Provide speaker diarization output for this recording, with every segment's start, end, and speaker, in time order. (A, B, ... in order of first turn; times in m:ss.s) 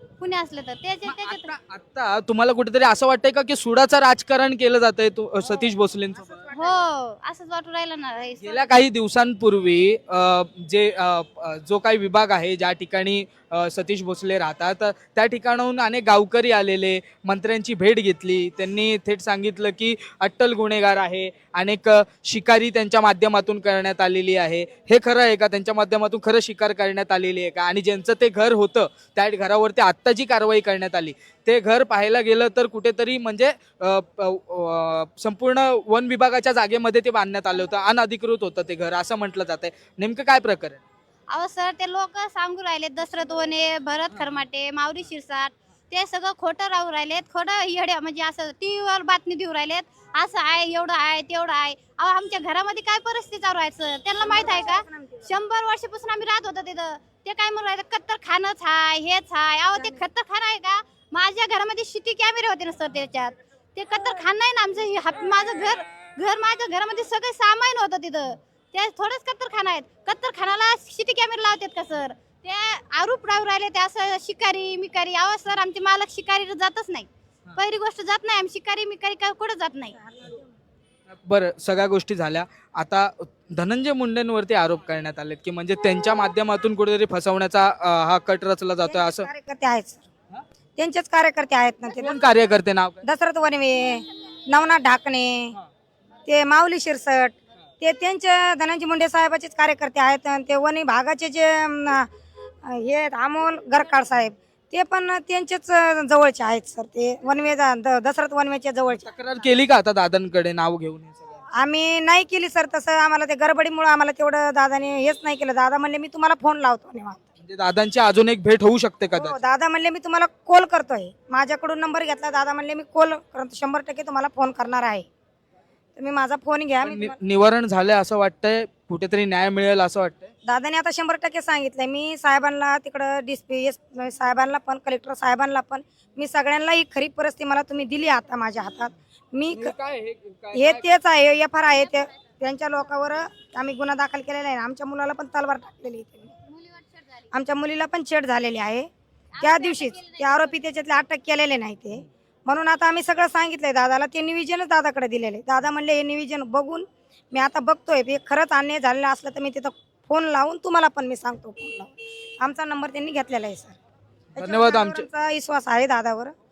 0:00.2-0:01.5 A
0:01.1-0:06.4 B
0:05.5-0:06.8 C
0:06.5-0:08.8 A
0:08.4-0:40.8 B
0:41.3-1:20.0 A
0:44.1-0:44.4 B
0:54.2-0:55.4 C
0:59.8-1:00.0 C
1:19.9-1:20.5 C
1:21.3-1:29.3 B
1:28.8-1:30.0 C
1:30.8-1:32.3 C
1:32.0-1:33.0 B
1:33.0-1:35.6 C
1:36.3-1:42.1 C
1:42.6-1:49.1 C
1:48.9-1:51.4 B
1:51.6-1:57.2 C
1:57.4-1:59.4 B
1:59.1-2:05.1 C
2:06.0-2:07.2 C
2:06.8-2:10.3 B
2:10.5-2:19.7 C
2:19.5-2:20.9 B
2:20.5-2:26.4 C
2:26.4-2:27.3 A
2:27.3-2:43.8 C
2:29.4-2:30.5 A
2:44.4-2:45.1 B
2:44.4-2:46.3 C